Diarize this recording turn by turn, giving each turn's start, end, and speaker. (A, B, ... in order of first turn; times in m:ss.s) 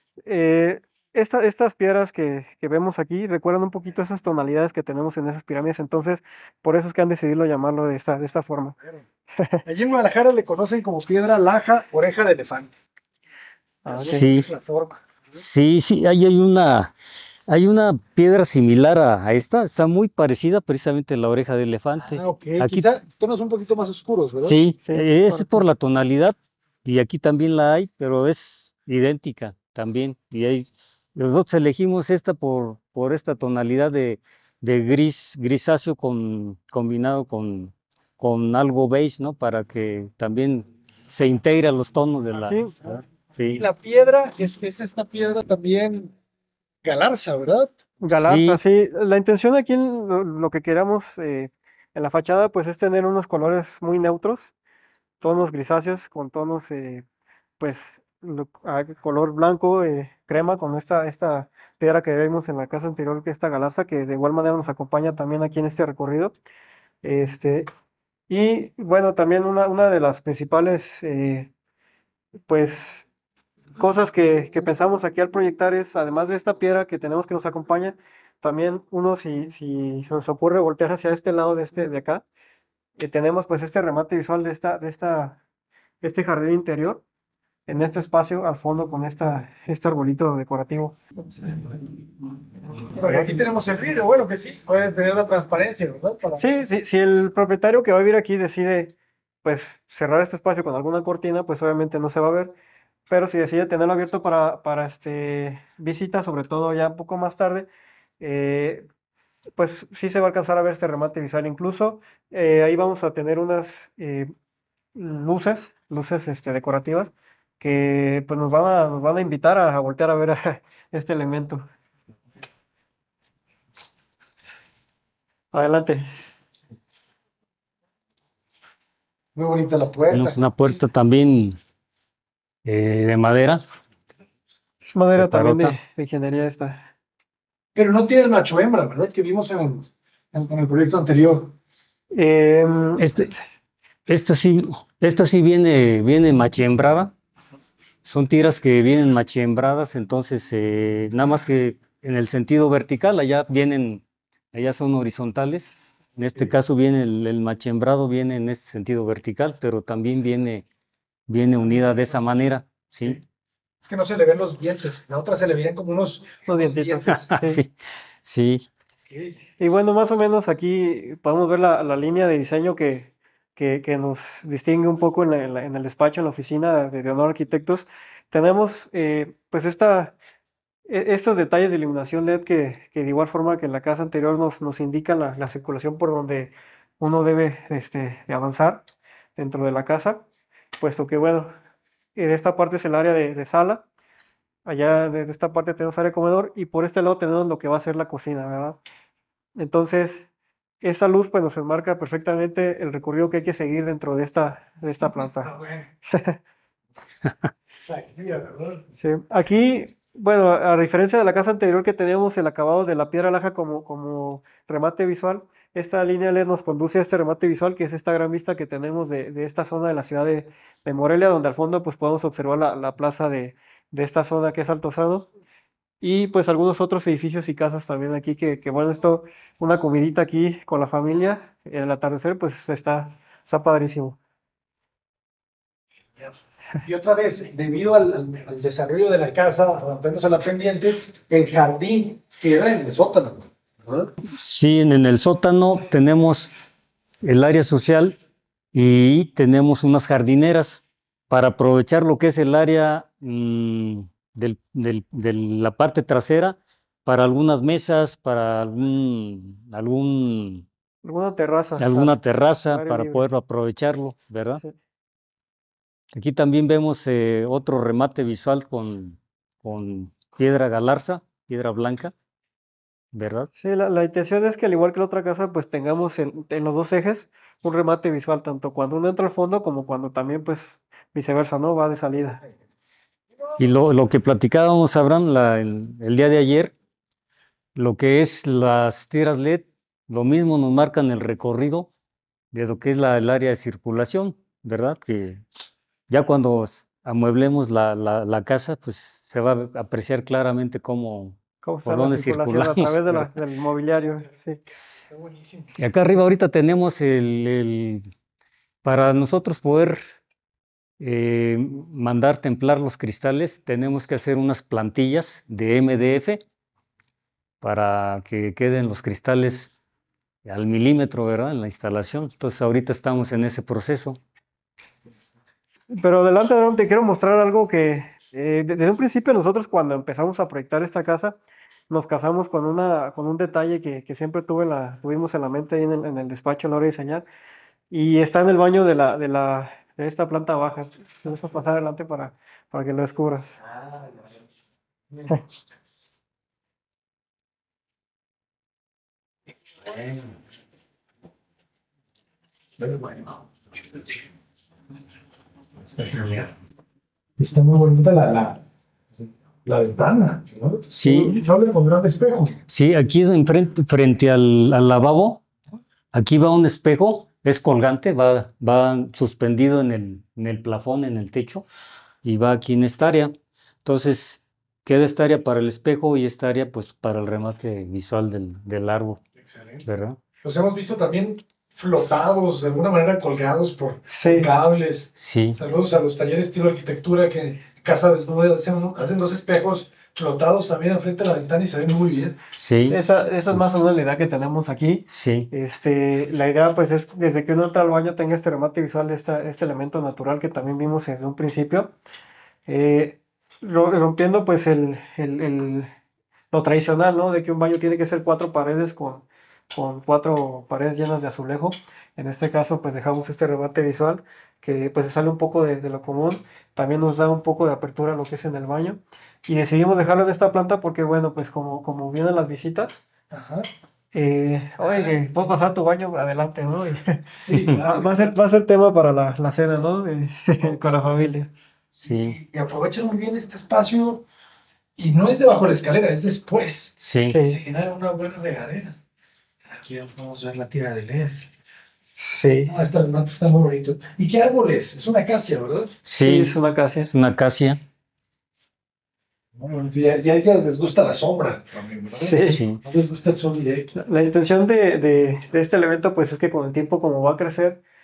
0:00.2-0:08.8 A
0:09.4-0:09.6 A
0:09.6-0:12.7 B
0:13.8-0:14.2 A
0:13.8-0:15.4 B
0:14.1-0:14.5 C
0:15.3-0:16.9 C
0:17.5-0:22.8 C
0:22.0-0:24.6 B
0:24.4-0:43.6 C
0:24.8-0:25.6 A
0:42.4-0:42.7 A
0:43.5-0:46.1 B
0:46.8-0:47.7 B
0:48.0-0:54.5 A
0:48.1-0:48.6 C
0:55.2-0:57.0 A
0:57.6-1:06.3 A
1:07.0-1:07.7 A
1:08.3-1:11.5 A
1:12.5-1:13.1 A
1:13.8-1:22.2 A
1:23.0-1:25.4 A
1:26.0-1:27.0 A
1:27.7-1:31.7 A
1:32.9-1:36.5 B
1:33.0-1:33.4 A
1:36.4-1:42.5 A
1:43.1-1:47.7 A
1:48.2-1:48.9 A
1:49.6-1:54.3 A
1:54.9-2:01.6 A
2:05.5-2:06.1 A
2:09.3-2:10.8 B
2:10.1-2:11.6 C
2:12.6-2:13.6 C
2:14.9-2:16.8 A
2:15.2-2:15.8 C
2:17.7-2:21.5 B
2:22.1-2:23.3 A
2:23.0-2:23.3 C
2:24.1-2:27.1 C
2:28.0-2:40.6 C
2:41.3-2:43.2 C
2:41.6-2:42.1 B
2:43.8-2:47.4 B
2:46.5-2:47.6 A
2:47.1-2:47.7 C
2:48.2-2:48.6 C
2:49.1-2:49.4 B
2:49.6-3:00.1 A
3:00.9-3:08.8 A
3:09.4-3:10.2 A
3:10.8-3:11.5 A
3:12.2-3:13.8 A
3:14.6-3:18.8 A
3:19.6-3:20.3 A
3:20.8-3:25.5 A
3:25.0-3:25.9 B
3:26.1-3:26.4 A
3:27.7-3:28.8 B
3:29.0-3:45.3 A
3:46.0-3:54.2 A
3:56.2-4:04.1 B
4:04.3-4:06.5 C
4:07.2-4:08.2 C
4:08.7-4:20.6 C
4:21.0-4:22.2 A
4:21.8-4:24.6 C
4:22.7-4:23.2 A
4:26.1-4:32.1 C
4:33.1-4:33.5 C
4:33.5-4:42.4 A
4:43.6-4:46.7 C
4:47.8-4:51.9 C
4:52.5-4:55.4 C
4:56.1-5:03.3 C
5:01.6-5:04.6 A
5:05.1-5:05.7 B
5:05.8-5:08.1 C
5:08.8-5:10.0 C
5:11.0-5:16.4 C
5:17.6-5:19.7 C
5:20.4-5:24.2 C
5:25.9-5:31.4 A
5:31.9-5:37.2 A
5:37.9-5:43.6 A
5:43.6-5:44.3 B
5:49.9-5:50.3 B
5:52.8-5:54.2 B
5:55.8-5:56.5 B
5:57.4-5:58.6 B
5:59.6-6:02.6 B
6:00.9-6:01.4 C
6:01.0-6:01.4 A
6:02.7-6:05.4 C
6:06.1-6:11.6 C
6:12.2-6:13.3 C
6:13.8-6:19.2 C
6:19.4-6:19.8 B
6:19.8-6:20.2 C
6:20.4-6:32.4 B
6:24.1-6:24.5 A
6:25.2-6:25.6 C
6:32.6-6:33.0 C
6:32.9-6:41.9 A
6:35.1-6:35.5 C
6:42.7-6:45.9 A
6:46.5-7:03.0 A
7:03.3-7:03.7 B
7:04.1-7:11.5 A
7:04.8-7:05.2 B
7:07.4-7:08.2 B
7:10.6-7:11.2 B
7:11.9-7:12.4 C
7:12.0-7:14.2 B
7:15.0-7:19.0 B
7:17.0-7:17.4 C
7:17.2-7:17.6 A
7:19.7-7:21.5 B
7:22.2-7:22.8 A
7:22.7-7:26.0 B
7:26.0-7:26.5 C
7:26.2-7:27.1 A
7:27.1-7:27.8 C
7:29.6-7:34.0 B
7:32.1-7:32.6 A
7:32.5-7:32.8 C
7:34.0-7:37.8 A